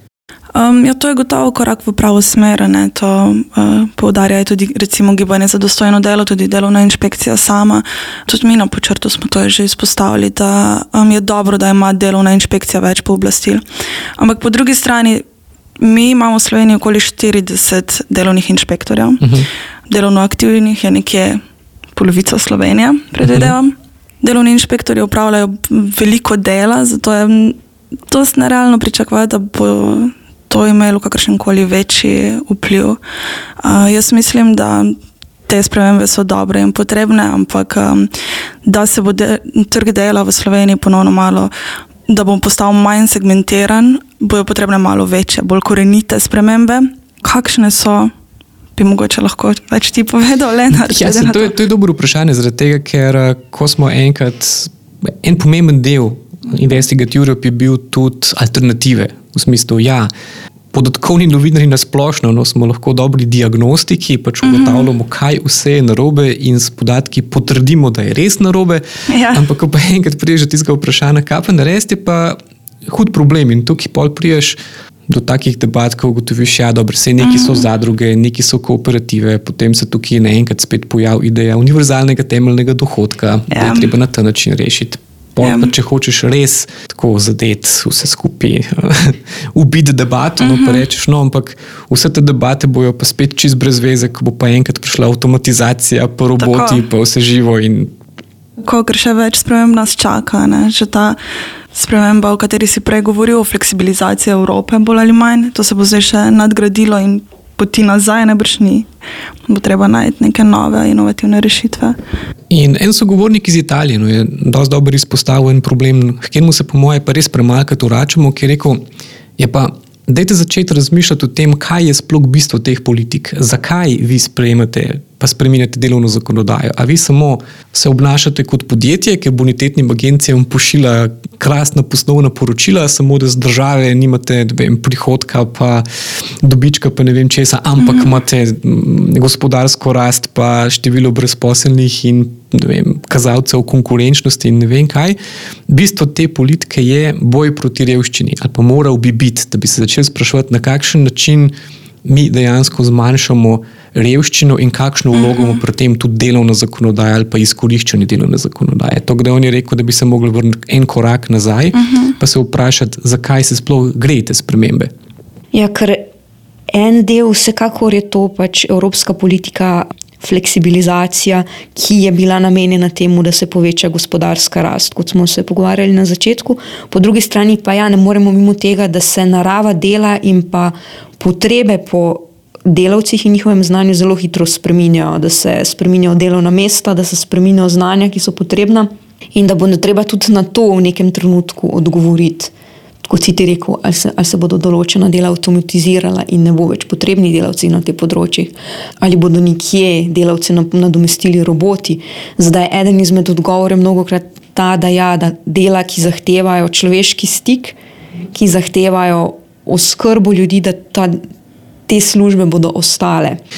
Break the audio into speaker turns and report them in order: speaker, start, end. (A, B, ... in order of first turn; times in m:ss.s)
0:00.6-0:13.6 A
0:14.2-0:15.2 A
0:15.8-0:19.3 A
0:19.2-0:19.5 B
0:19.9-0:21.4 A
0:22.0-0:27.6 A
0:23.2-0:23.6 B
0:28.1-0:33.0 A
0:33.6-0:38.1 A
0:38.6-0:41.5 A
0:42.1-0:48.1 A
0:48.8-0:51.6 A
0:50.7-1:00.1 B
1:00.7-1:14.6 B
1:04.4-1:04.9 A
1:09.1-1:09.4 A
1:15.1-1:37.9 B
1:17.2-1:17.7 A
1:23.5-1:23.9 A
1:25.4-1:25.7 A
1:30.4-1:30.8 A
1:36.4-1:36.8 A
1:38.6-1:41.2 A
1:41.7-1:48.9 A
1:49.5-1:52.0 A
1:52.5-1:58.8 B
1:59.4-2:15.9 B
2:16.4-2:25.2 B
2:25.7-2:31.5 B
2:32.0-2:44.9 B
2:35.1-2:35.6 A
2:41.7-2:42.1 A
2:45.5-2:46.1 C
2:46.7-3:12.5 C
3:13.0-3:27.8 C
3:28.3-3:31.2 C
3:31.9-3:33.4 C